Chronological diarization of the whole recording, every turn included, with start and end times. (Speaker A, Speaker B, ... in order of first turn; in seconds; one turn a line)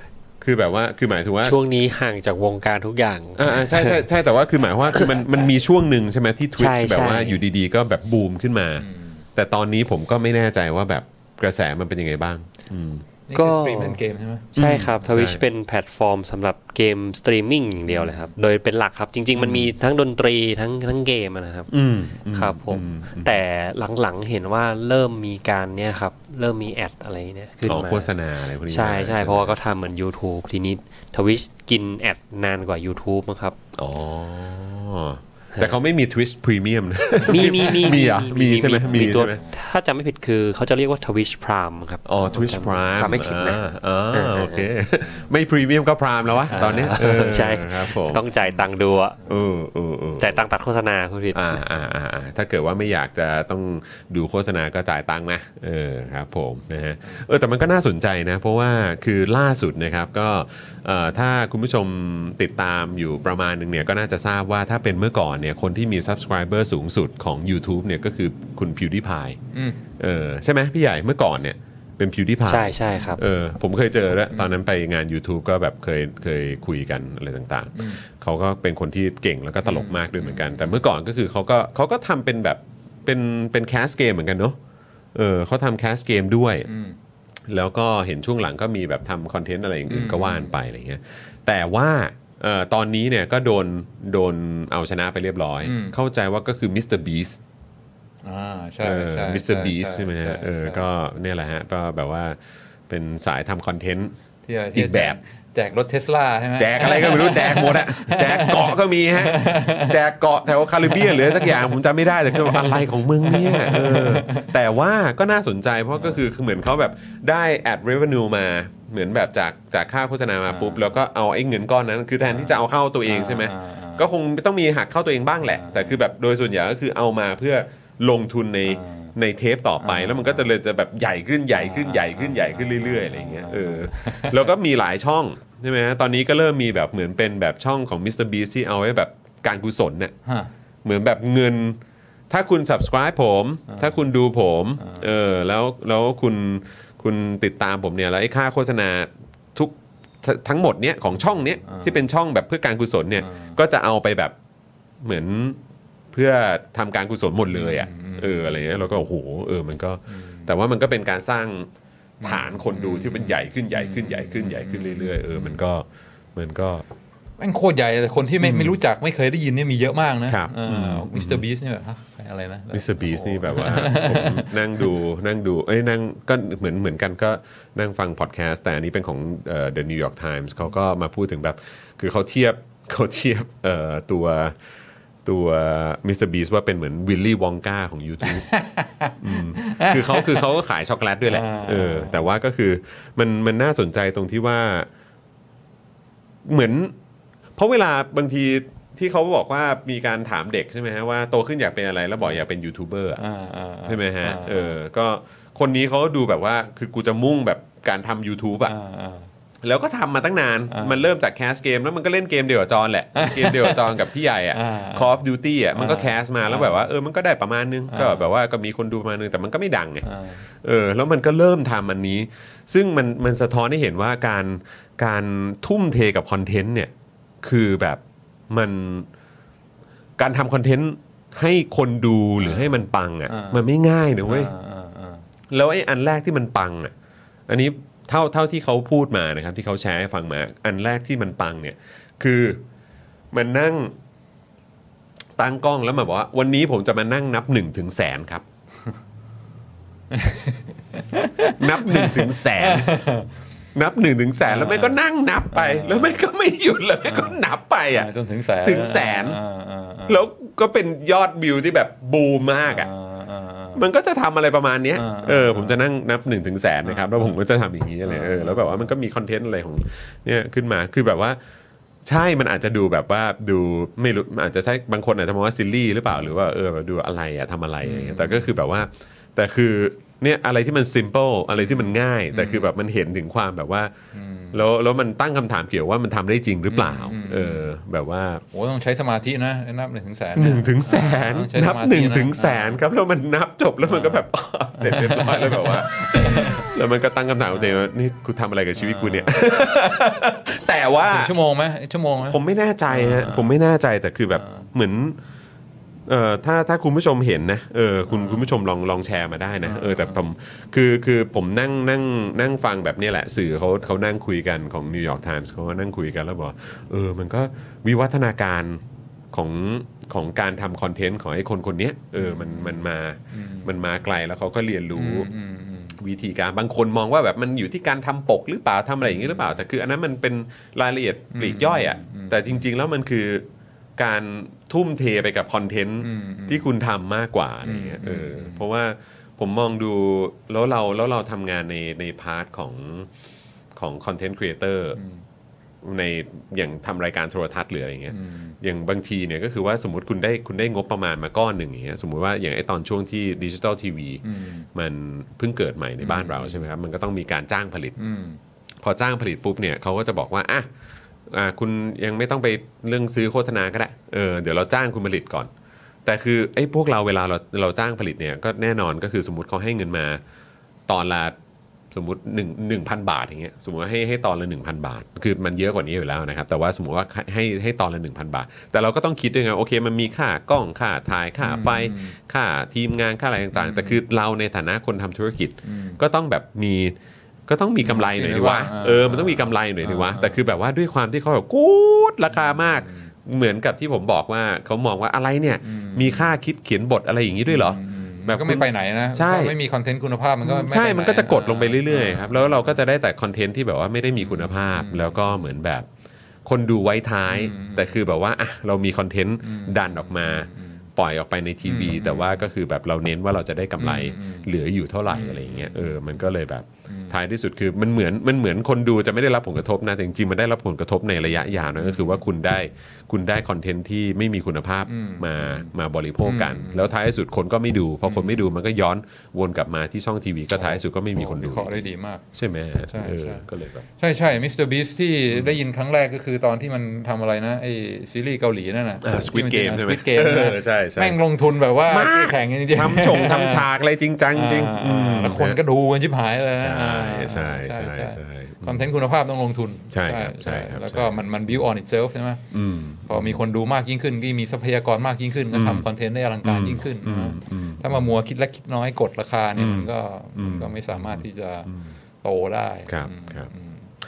Speaker A: 0.4-1.6
Speaker B: 1.4-4.0
Speaker A: 3.4-13.0
Speaker B: 6.6-7.4
Speaker C: 8.8-9.2
Speaker C: 13.3-14.5
Speaker B: 13.3-14.0
Speaker A: 14.6-15.4
Speaker B: 14.6-21.7
Speaker A: 17.9-18.2
Speaker A: 19.4-19.7
Speaker A: 21.7-23.4
Speaker B: 22.3-28.1
Speaker A: 27.6-29.6
Speaker B: 28.7-33.6
Speaker A: 33.8-39.4
Speaker B: 37.2-44.7
Speaker C: 38.9-39.5
Speaker A: 42.0-48.3
Speaker B: 46.5-49.2
Speaker A: 49.3-50.5
Speaker B: 50.2-51.6
Speaker A: 51.3-69.4
Speaker C: 69.5-69.8
Speaker A: 70.0-84.6
Speaker B: 72.5-73.2
Speaker C: 77.8-78.0
Speaker C: 79.6-80.8
Speaker A: 85.2-86.7
Speaker C: 86.7-87.0
Speaker A: 87.5-97.4
Speaker C: 89.9-90.5
Speaker C: 95.6-96.0
Speaker C: 98.2-100.8
Speaker A: 98.8-102.4
Speaker A: 102.9-104.2
Speaker C: 104.5-110.0
Speaker A: 104.8-105.2
Speaker A: 106.6-140.1
Speaker C: 110.8-111.8
Speaker C: 112.3-114.5
Speaker C: 120.5-120.9
Speaker C: 122.3-124.1
Speaker C: 125.4-126.0
Speaker C: 128.7-129.1
Speaker C: 129.8-130.5
Speaker C: 131.6-134.5
Speaker C: 140.3-140.5
Speaker A: 140.8-141.8
Speaker A: 142.3-154.3
Speaker C: 143.7-144.0
Speaker C: 144.8-145.1
Speaker C: 151.6-152.0
Speaker C: 153.2-153.6
Speaker A: 155.0-155.6
Speaker A: 156.1-161.7
Speaker C: 157.5-158.6
Speaker C: 160.1-160.5
Speaker C: 162.2-165.6
Speaker A: 162.2-166.8
Speaker C: 167.4-174.5
Speaker A: 168.4-168.8
Speaker A: 170.3-171.4
Speaker A: 172.7-184.6
Speaker A: 185.2-188.5
Speaker C: 188.3-190.5
Speaker A: 189.2-194.9
Speaker C: 191.3-192.2
Speaker A: 196.4-196.9
Speaker A: 197.6-203.2
Speaker C: 203.2-204.8
Speaker A: 203.8-208.8
Speaker C: 208.7-209.3
Speaker A: 209.6-220.1
Speaker C: 210.7-211.1
Speaker C: 213.2-214.0
Speaker C: 214.5-215.2
Speaker C: 215.7-216.8
Speaker C: 217.9-218.3
Speaker C: 220.1-220.4
Speaker A: 220.6-229.1
Speaker A: 230.2-234.5
Speaker C: 232.4-232.7
Speaker C: 233.3-233.6
Speaker C: 234.2-235.2
Speaker A: 235.5-236.9
Speaker A: 237.5-242.6
Speaker A: 243.3-243.9
Speaker A: 245.4-248.4
Speaker C: 250.1-253.3
Speaker A: 251.6-252.9
Speaker A: 253.8-258.1
Speaker C: 254.5-255.0
Speaker C: 255.5-256.2
Speaker C: 257.1-257.4
Speaker C: 257.9-260.2
Speaker A: 258.6-259.4
Speaker A: 260.1-262.9
Speaker C: 262.6-263.8
Speaker A: 263.8-271.4
Speaker C: 264.9-265.8
Speaker C: 266.8-267.4
Speaker C: 268.0-268.9
Speaker A: 272.1-283.9
Speaker C: 277.8-278.5
Speaker C: 281.6-282.7
Speaker C: 284.1-284.6
Speaker A: 284.5-288.4
Speaker C: 286.7-287.7
Speaker C: 288.5-292.8
Speaker A: 290.4-301.3
Speaker C: 293.9-294.3
Speaker C: 294.8-296.7
Speaker C: 297.5-297.9
Speaker C: 298.8-299.4
Speaker C: 301.1-303.5
Speaker A: 302.2-305.2
Speaker C: 304.4-304.7
Speaker A: 306.1-325.3
Speaker C: 308.1-308.5
Speaker C: 309.6-310.2
Speaker C: 322.2-323.7
Speaker C: 324.9-326.0
Speaker A: 326.0-333.5
Speaker C: 329.0-329.6
Speaker C: 331.3-332.6
Speaker A: 334.0-343.1
Speaker C: 336.0-336.7
Speaker C: 337.6-338.6
Speaker A: 343.8-345.0
Speaker C: 345.0-345.2
Speaker A: 345.8-357.9
Speaker C: 348.1-348.6
Speaker C: 354.2-354.7
Speaker C: 356.0-356.7
Speaker C: 358.0-358.4
Speaker A: 358.8-360.7
Speaker A: 361.3-365.5
Speaker A: 366.1-370.2
Speaker A: 370.9-371.4
Speaker A: 371.9-387.0
Speaker C: 381.4-382.2
Speaker C: 383.5-384.0
Speaker C: 385.6-386.0
Speaker A: 387.5-399.5
Speaker C: 387.8-390.4
Speaker C: 392.4-393.1
Speaker C: 395.6-396.3
Speaker C: 397.5-402.8
Speaker A: 400.4-405.9
Speaker C: 404.2-405.5
Speaker A: 406.5-433.8
Speaker C: 407.3-408.0
Speaker C: 409.4-410.9
Speaker C: 411.6-412.4
Speaker C: 413.8-414.5
Speaker C: 415.1-416.1
Speaker C: 416.9-417.2
Speaker C: 421.8-422.2
Speaker C: 424.9-425.7
Speaker C: 426.2-426.9
Speaker C: 428.0-428.4
Speaker C: 430.5-432.2
Speaker C: 432.9-433.5
Speaker C: 434.0-443.7
Speaker A: 435.3-435.6
Speaker A: 439.0-441.2
Speaker A: 441.9-445.6
Speaker C: 444.3-452.4
Speaker A: 446.6-448.9
Speaker A: 449.9-451.2
Speaker A: 452.5-453.4
Speaker C: 453.1-463.8
Speaker A: 455.5-455.9
Speaker A: 456.4-458.1
Speaker A: 459.6-461.8
Speaker A: 462.9-463.5